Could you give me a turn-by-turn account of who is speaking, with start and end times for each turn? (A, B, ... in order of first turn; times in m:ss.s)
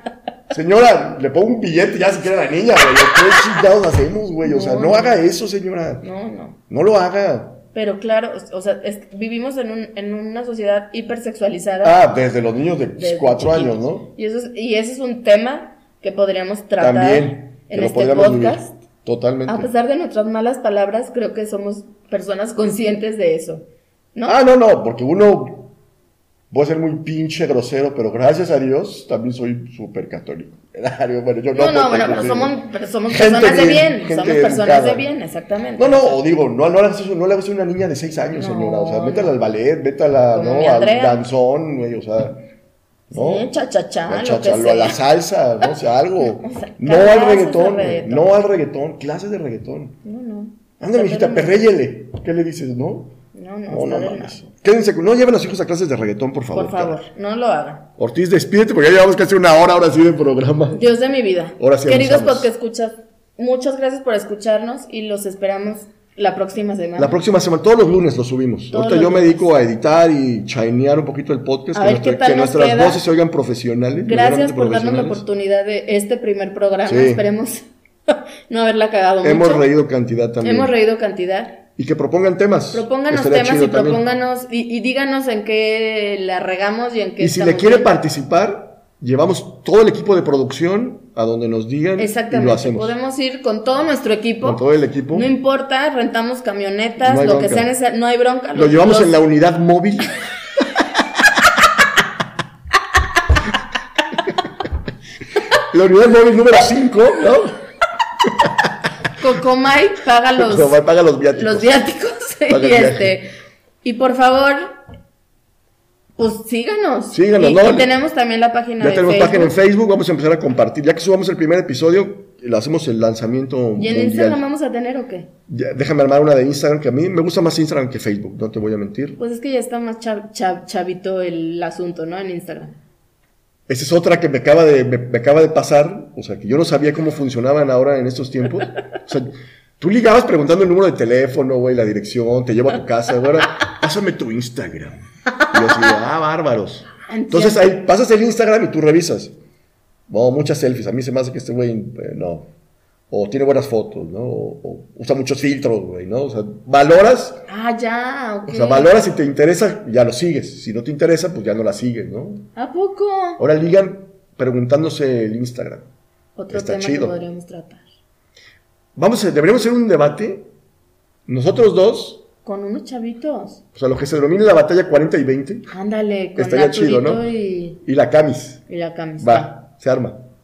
0:00.5-0:06.0 A
0:04.4-0:05.2 B
0:06.0-0:06.6 B
0:06.7-0:07.6 A
0:07.7-0:12.0 B
0:11.8-0:14.1 A
0:13.0-0:18.8 B
0:16.8-0:19.7 A
0:19.5-0:24.4 B
0:24.3-0:25.7 A
0:26.5-0:32.6 A
0:31.5-0:36.2 B
0:33.1-0:35.1 A
0:35.8-0:42.4 A
0:38.4-0:39.3 B
0:40.3-0:41.2 B
0:43.1-0:43.5 A
0:43.1-0:45.0 B
0:44.1-0:50.0 A
0:46.2-0:48.3 B
0:50.0-0:51.7 B
0:50.8-0:53.1 A
0:53.3-0:54.5 B
0:53.7-0:57.0 A
0:56.5-0:57.8 B
0:58.0-1:00.8 A
1:00.7-1:07.2 B
1:01.6-1:02.5 A
1:07.0-1:15.2 A
1:08.7-1:09.5 B
1:11.7-1:13.0 B
1:14.0-1:19.7 B
1:16.8-1:17.2 A
1:19.2-1:20.7 A
1:20.4-1:21.6 B
1:21.8-1:24.0 A
1:22.7-1:28.0 B
1:27.2-1:32.9 A
1:32.0-1:39.2 B
1:34.4-1:35.3 A
1:37.0-1:37.7 A
1:38.6-1:40.9 A
1:45.6-1:47.6 A
1:48.2-1:48.7 A
1:49.2-1:50.8 B
1:50.4-1:51.8 A
1:51.3-1:53.3 B
1:52.5-1:53.2 A
1:53.8-1:54.8 B
1:56.2-1:59.5 B
1:57.1-1:57.9 A
1:58.8-2:04.4 A
2:03.8-2:05.3 B
2:05.5-2:09.2 A
2:09.2-2:12.8 B
2:13.7-2:29.4 A
2:25.4-2:26.0 B
2:27.1-2:27.7 B
2:30.1-2:32.5 A
2:33.1-2:37.4 A
2:37.5-2:39.1 B
2:38.4-2:42.4 A
2:42.6-2:43.4 B
2:43.4-2:45.9 A
2:46.4-2:47.8 B
2:46.5-2:47.2 A
2:49.0-2:50.5 A
2:51.3-2:52.2 A
2:52.4-2:53.6 B
2:53.8-2:55.7 A
2:55.7-2:57.8 B
2:56.4-2:57.2 A
2:57.8-2:58.6 A
2:58.7-2:59.6 B
2:59.2-3:00.2 A